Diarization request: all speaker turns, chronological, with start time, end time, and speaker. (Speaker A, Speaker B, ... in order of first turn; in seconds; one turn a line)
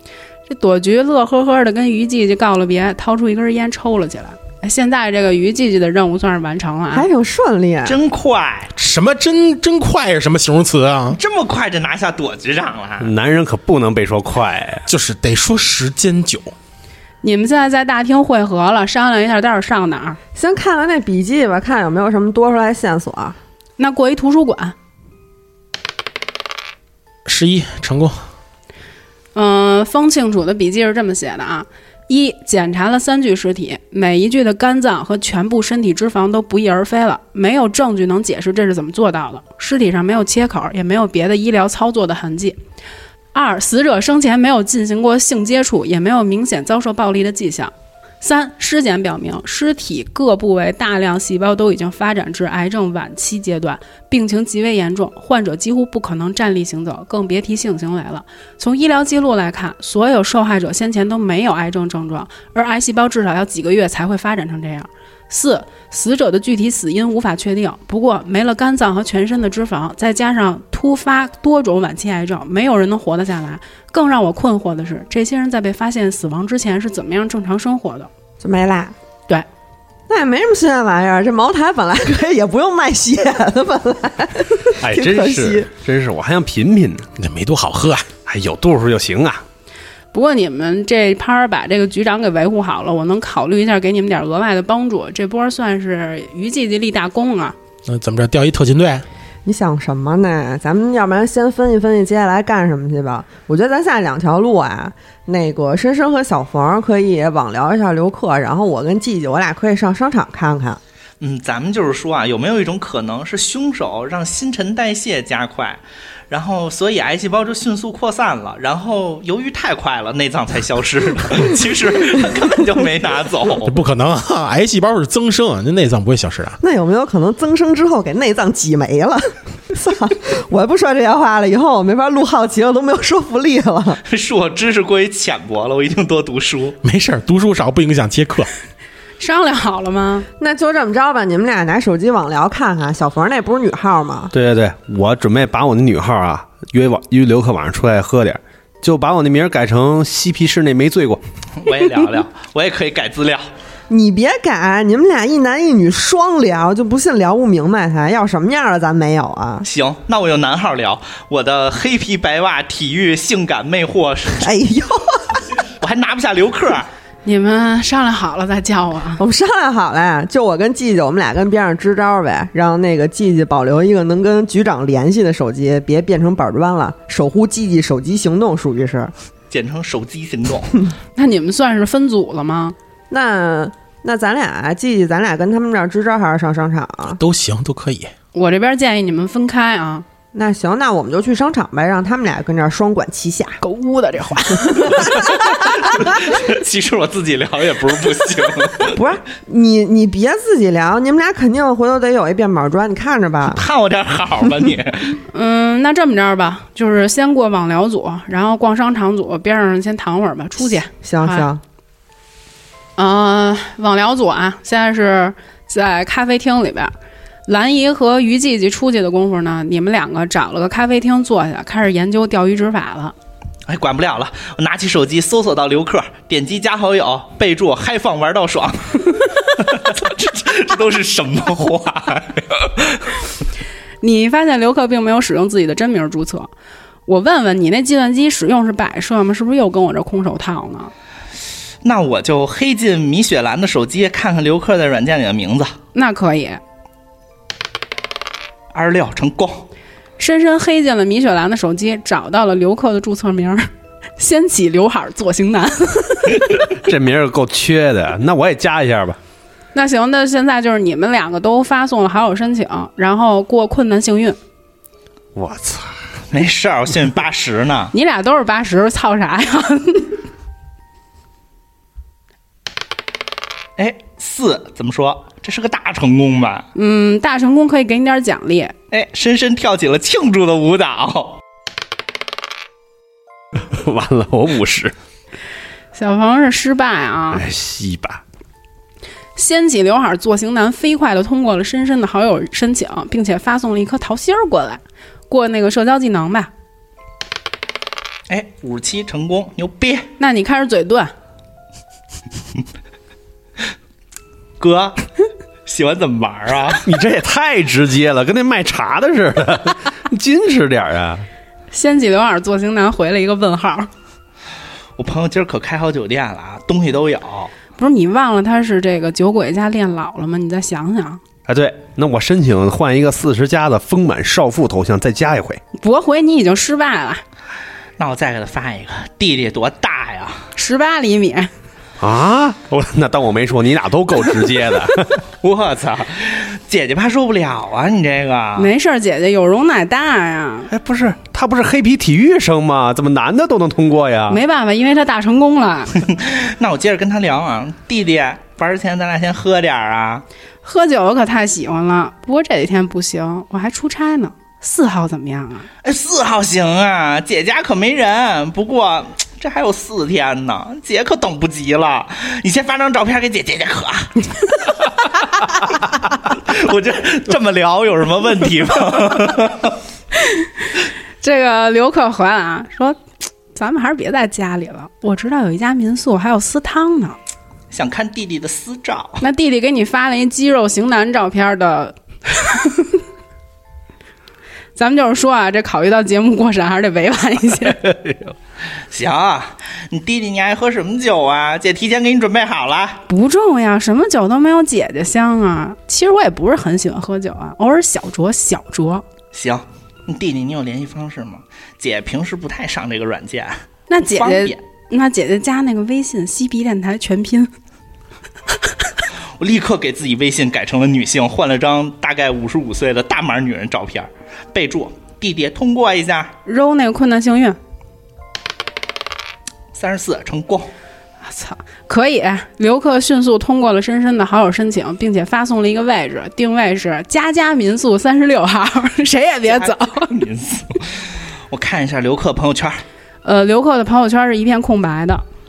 Speaker A: 0.5-7.1
Speaker B: 6.9-8.0
Speaker C: 7.8-8.7
Speaker D: 8.8-11.2
Speaker C: 11.1-13.1
Speaker E: 13.0-14.8
Speaker D: 14.9-16.5
Speaker A: 17.2-20.2
Speaker B: 20.4-23.4
Speaker A: 23.8-24.7
Speaker D: 27.2-28.2
Speaker A: 29.3-42.6
Speaker A: 43.3-78.1
Speaker B: 78.4-78.9
Speaker B: 80.1-85.7
Speaker E: 84.8-87.1
Speaker D: 87.2-88.1
Speaker E: 88.2-89.4
Speaker A: 90.1-97.5
Speaker D: 97.8-99.0
Speaker B: 99.5-110.8
Speaker C: 111.2-123.7
Speaker D: 123.6-126.6
Speaker B: 126.6-134.0
Speaker C: 134.1-136.8
Speaker D: 136.8-138.5
Speaker A: 139.2-140.2
Speaker B: 140.4-144.3
Speaker E: 144.3-151.2
Speaker C: 151.6-153.5
Speaker B: 153.9-159.7
Speaker C: 159.6-164.5
Speaker B: 164.4-165.4
Speaker C: 165.8-166.9
Speaker A: 167.2-169.2
Speaker B: 169.2-179.1
Speaker C: 179.5-180.8
Speaker A: 181.2-182.7
Speaker B: 183.1-187.2
Speaker D: 187.2-188.1
Speaker A: 188.3-190.0
Speaker B: 190.3-193.6
Speaker A: 193.6-195.4
Speaker C: 195.6-199.0
Speaker B: 198.8-203.6
Speaker C: 203.5-205.2
Speaker A: 205.3-211.5
Speaker B: 211.0-211.6
Speaker A: 213.0-216.9
Speaker A: 217.5-223.1
Speaker C: 223.7-233.1
Speaker A: 234.0-236.5
Speaker A: 237.1-240.9
Speaker C: 241.8-245.8
Speaker A: 245.9-246.6
Speaker C: 248.7-249.7
Speaker A: 250.2-256.5
Speaker E: 256.7-259.2
Speaker A: 259.7-264.4
Speaker E: 265.3-266.0
Speaker C: 266.3-267.9
Speaker A: 267.9-270.2
Speaker C: 273.8-276.7
Speaker A: 276.7-278.7
Speaker C: 278.9-281.4
Speaker E: 283.6-284.9
Speaker A: 285.9-287.4
Speaker E: 287.3-288.2
Speaker A: 289.4-296.5
Speaker C: 298.3-300.1
Speaker A: 300.2-301.1
Speaker C: 304.6-305.1
Speaker C: 305.6-306.9
Speaker E: 306.8-311.2
Speaker A: 311.7-313.9
Speaker C: 315.0-317.5
Speaker A: 317.8-321.2
Speaker E: 321.5-325.6
Speaker A: 325.8-327.2
Speaker C: 328.0-330.5
Speaker A: 330.5-331.5
Speaker E: 332.0-335.2
Speaker C: 335.4-338.7
Speaker A: 338.6-340.7
Speaker E: 340.7-344.4
Speaker A: 344.3-346.0
Speaker C: 346.0-350.2
Speaker A: 350.6-355.7
Speaker C: 355.8-369.8
Speaker A: 370.2-370.5
Speaker A: 371.2-373.0
Speaker A: 373.5-377.2
Speaker C: 377.7-379.2
Speaker A: 379.2-383.0
Speaker A: 384.8-387.8
Speaker E: 388.0-388.3
Speaker C: 388.9-393.0
Speaker A: 393.1-399.0
Speaker C: 399.3-404.6
Speaker A: 403.9-407.5
Speaker C: 409.4-416.3
Speaker A: 416.4-417.6
Speaker C: 419.7-420.7
Speaker A: 421.2-430.1
Speaker C: 429.5-432.8
Speaker A: 433.2-435.2